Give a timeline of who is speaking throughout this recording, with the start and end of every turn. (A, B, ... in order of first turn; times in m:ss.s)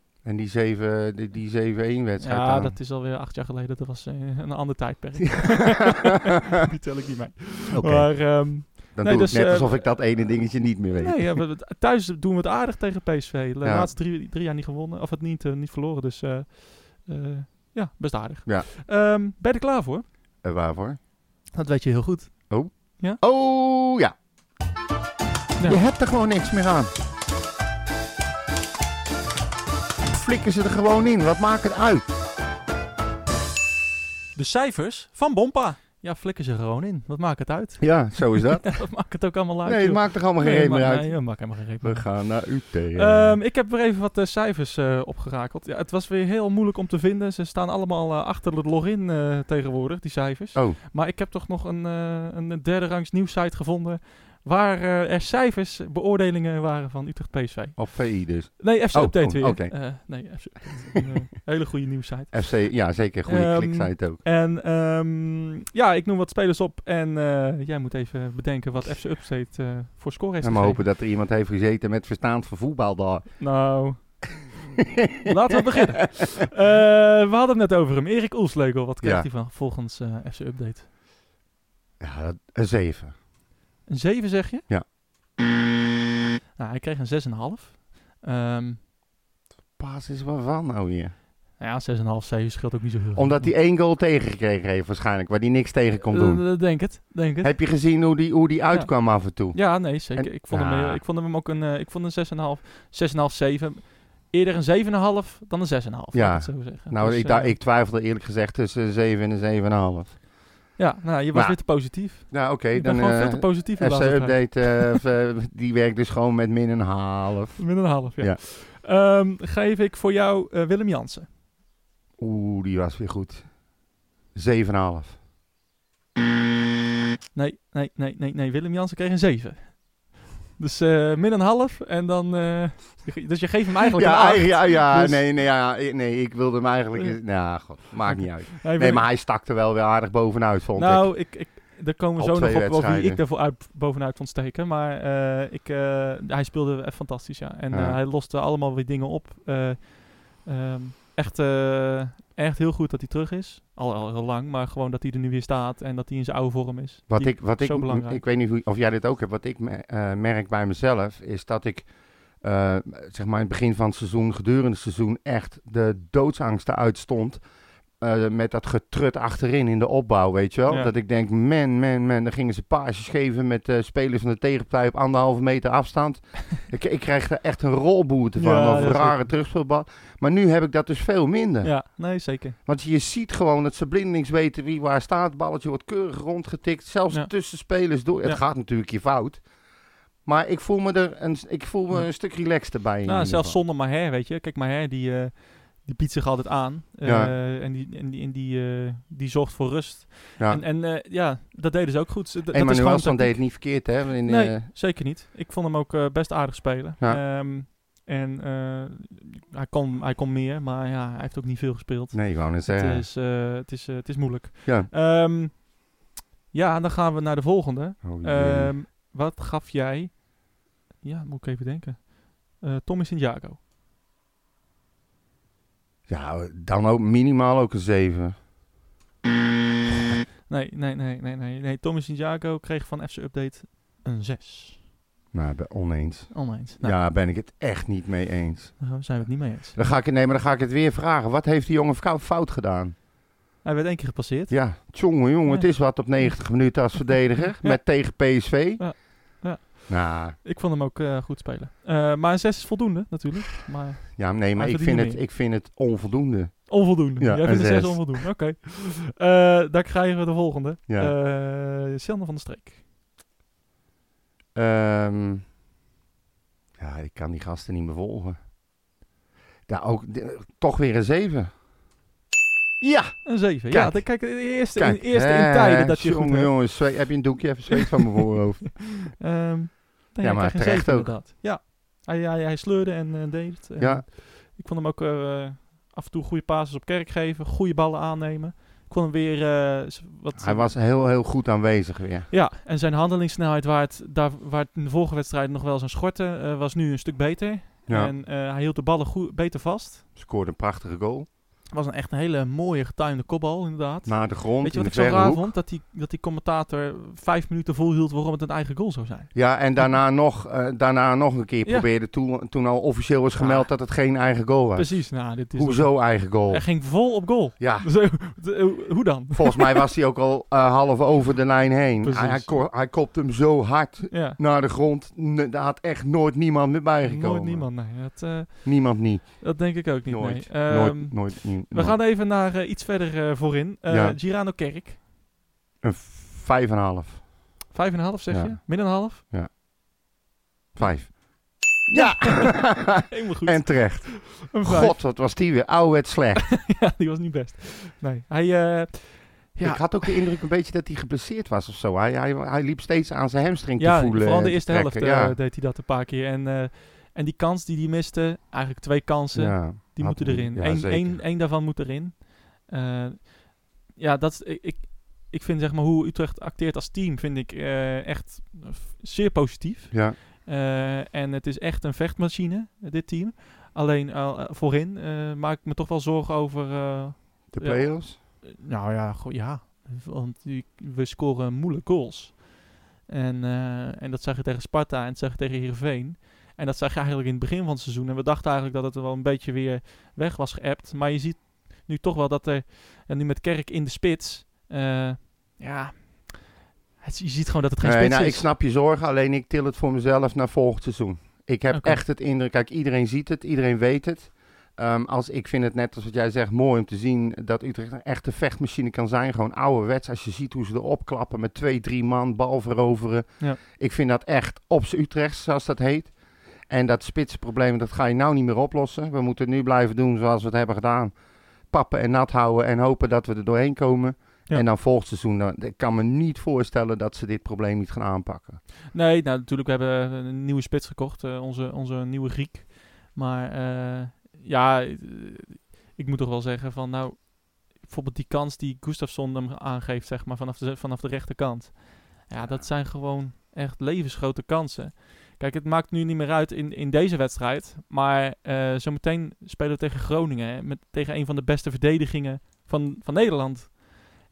0:00.2-0:02.8 A
0:02.2-0:20.1 B
0:07.7-0:11.4 A
0:13.6-0:13.9 A
0:20.4-0:21.0 A
0:21.5-0:23.2 B
0:22.5-0:24.1 A
0:25.6-0:26.9 A
0:30.1-0:32.0 A
0:34.4-1:10.8 B
0:37.8-0:43.4 A
0:57.8-1:00.4 A
1:02.3-1:04.2 A
1:10.4-1:13.8 A
1:13.4-1:14.4 B
1:15.2-1:20.9 B
1:19.0-1:19.3 A
1:22.0-1:23.2 A
1:23.9-1:24.7 B
1:26.6-1:28.8 B
1:29.8-1:31.1 A
1:31.6-1:33.6 B
1:33.2-1:41.0 A
1:36.0-1:37.6 B
1:38.7-1:47.6 B
1:46.1-1:50.2 A
1:50.8-1:55.0 B
1:51.3-1:58.4 A
1:57.6-2:01.3 B
2:02.2-2:03.6 A
2:04.3-2:05.2 A
2:07.3-2:15.3 B
2:14.0-2:21.6 A
2:17.0-2:19.1 B
2:20.8-2:38.2 B
2:22.2-2:23.2 A
2:27.7-2:28.0 A
2:37.1-2:47.4 A
2:48.0-3:02.0 A
2:58.4-2:59.3 B
3:01.6-3:02.6 B
3:02.6-3:09.5 A
3:07.1-3:07.5 B
3:10.2-3:13.6 A
3:11.9-3:12.2 B
3:13.0-3:35.8 B
3:17.0-3:17.3 A
3:20.4-3:20.6 A
3:22.5-3:24.7 A
3:32.1-3:33.1 A
3:34.6-3:34.9 A
3:36.5-3:43.6 B
3:38.0-3:38.8 A
3:46.1-3:48.4 A
3:50.5-3:54.9 B
3:55.3-4:02.9 A
3:56.3-3:57.0 B
3:58.8-3:59.8 B
4:03.6-4:06.4 B
4:04.5-4:10.4 A
4:07.6-4:08.1 B
4:08.8-4:15.2 B
4:14.2-4:18.2 A
4:16.7-4:22.8 B
4:20.9-4:21.1 A
4:24.6-4:25.4 A
4:26.8-4:28.4 A
4:29.7-4:31.5 A
4:32.8-4:39.2 A
4:33.2-4:37.2 B
4:39.1-4:50.8 B
4:40.2-4:41.2 A
4:43.8-4:44.0 A
4:50.4-4:52.3 A
4:52.3-5:00.0 B
4:57.9-4:58.1 A
5:00.2-5:01.3 A
5:01.7-5:10.0 B
5:04.1-5:05.5 A
5:09.3-5:16.9 A
5:11.6-5:11.9 B
5:13.4-5:13.7 B
5:14.8-5:19.8 B
5:17.6-5:18.3 A
5:19.4-5:32.0 A
5:22.0-5:22.6 B
5:24.1-5:24.4 B
5:27.0-5:35.0 B
5:33.9-5:34.2 A
5:35.8-5:37.3 A
5:37.7-5:39.2 B
5:38.3-5:39.5 A
5:40.8-5:46.6 A
5:41.9-5:45.0 B
5:46.5-5:50.2 B
5:49.6-5:55.4 A
5:53.8-6:38.5 B
5:59.4-6:01.2 A
6:09.9-6:10.2 A
6:17.5-6:18.2 A
6:37.8-7:01.2 A
6:41.7-6:42.0 B
7:01.7-7:08.6 A
7:08.9-7:33.8 B
7:22.4-7:22.7 A